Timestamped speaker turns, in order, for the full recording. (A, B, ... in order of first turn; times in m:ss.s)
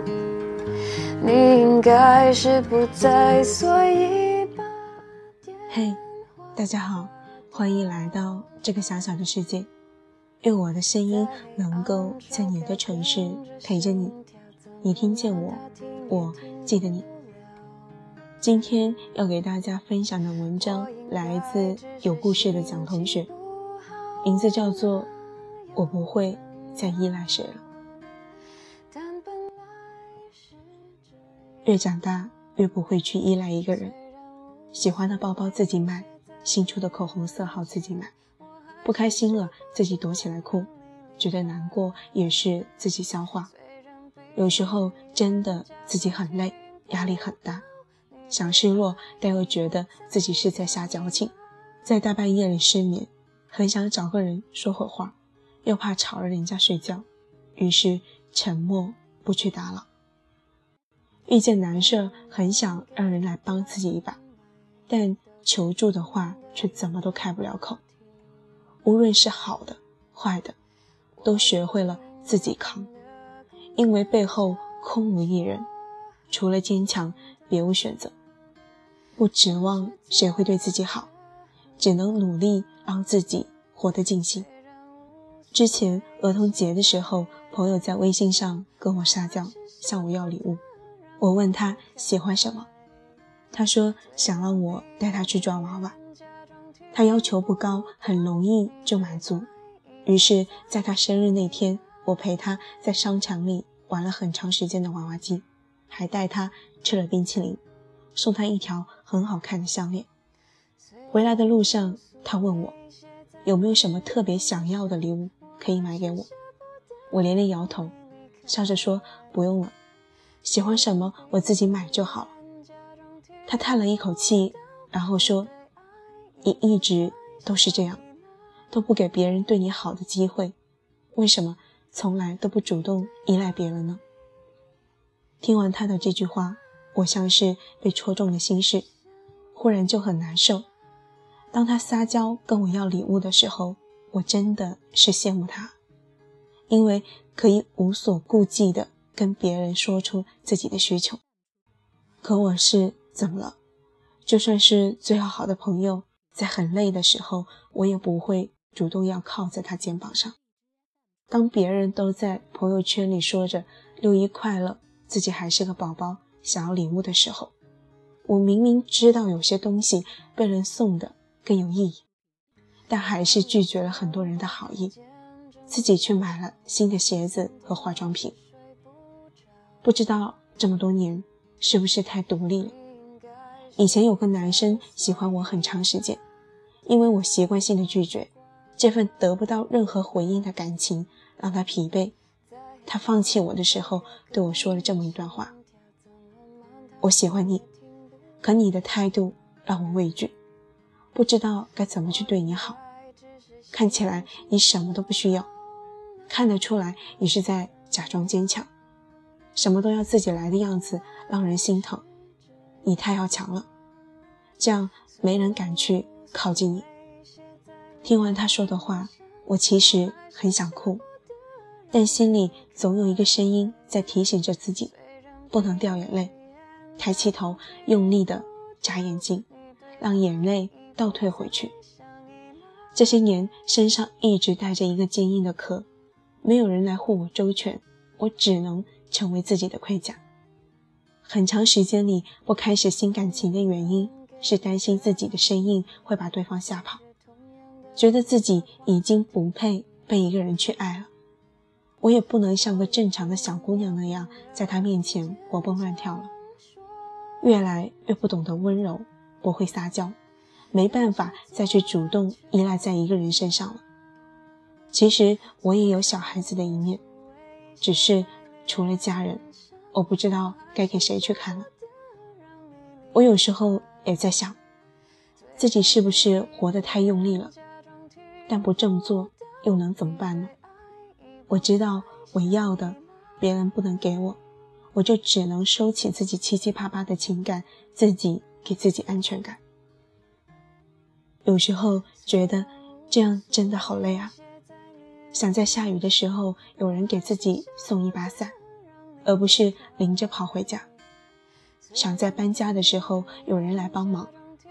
0:01.2-0:05.7 A
0:05.7-0:06.0 B
0:06.6-0:09.7 B
0:10.4-0:14.2 B
0:11.4-0:16.1 A
0:14.8-0:17.1 B
0:17.1-0:17.9 A
0:18.4-0:23.3 B
0:20.8-0:24.3 A
0:24.2-0:25.1 B
0:25.8-0:27.6 B
0:28.9-0:30.4 A
0:31.6-0:34.0 B
0:34.7-0:38.1 B
0:38.8-0:43.5 B
0:44.4-0:47.7 B
0:48.3-0:57.1 B
0:57.6-0:59.9 B
1:01.3-1:04.2 B
1:04.9-1:07.8 B
1:08.8-1:10.6 B
1:11.2-1:12.9 B
1:13.8-1:15.7 B
1:16.3-1:18.2 B
1:19.2-1:21.1 B
1:21.8-1:24.5 B
1:25.5-1:30.6 B
1:31.2-1:32.7 B
1:33.5-1:36.0 B
1:36.9-1:39.5 B
1:40.0-1:47.6 B
1:48.2-1:50.1 B
1:51.1-1:52.8 B
1:53.4-1:56.3 B
1:57.1-1:57.9 B
1:58.5-1:59.8 B
2:00.4-2:02.3 B
2:03.5-2:05.5 B
2:06.4-2:08.0 B
2:08.7-2:10.6 B
2:11.1-2:14.0 B
2:15.4-2:18.9 B
2:19.5-2:20.6 B
2:21.5-2:25.8 B
2:26.7-2:31.2 B
2:32.2-2:33.6 B
2:34.3-2:40.4 B
2:41.3-2:47.5 B
2:48.2-2:52.0 B
2:52.9-2:55.0 B
2:55.7-2:58.4 B
2:59.8-3:02.8 B
3:03.0-3:03.3 A
3:03.8-3:06.2 B
3:06.8-3:12.2 B
3:12.9-3:15.5 B
3:17.0-3:17.6 B
3:18.4-3:20.4 B
3:21.1-3:22.8 B
3:23.7-3:25.5 B
3:26.3-3:28.7 B
3:29.6-3:32.0 B
3:32.8-3:33.7 B
3:34.6-3:36.9 B
3:38.0-3:41.0 B
3:41.9-3:44.9 B
3:45.5-3:46.3 B
3:47.0-3:49.5 B
3:50.0-3:51.7 B
3:53.0-3:55.9 B
3:56.4-4:00.2 B
4:01.2-4:07.0 B
4:08.0-4:11.1 B
4:12.0-4:16.3 B
4:17.4-4:20.2 B
4:20.7-4:23.8 B
4:24.9-4:27.0 B
4:27.8-4:31.7 B
4:33.1-4:34.6 B
4:35.6-4:37.5 B
4:38.5-4:40.5 B
4:41.5-4:44.4 B
4:44.9-4:49.6 B
4:51.4-4:54.4 B
4:55.3-4:58.6 B
4:59.2-5:00.9 B
5:01.9-5:04.3 B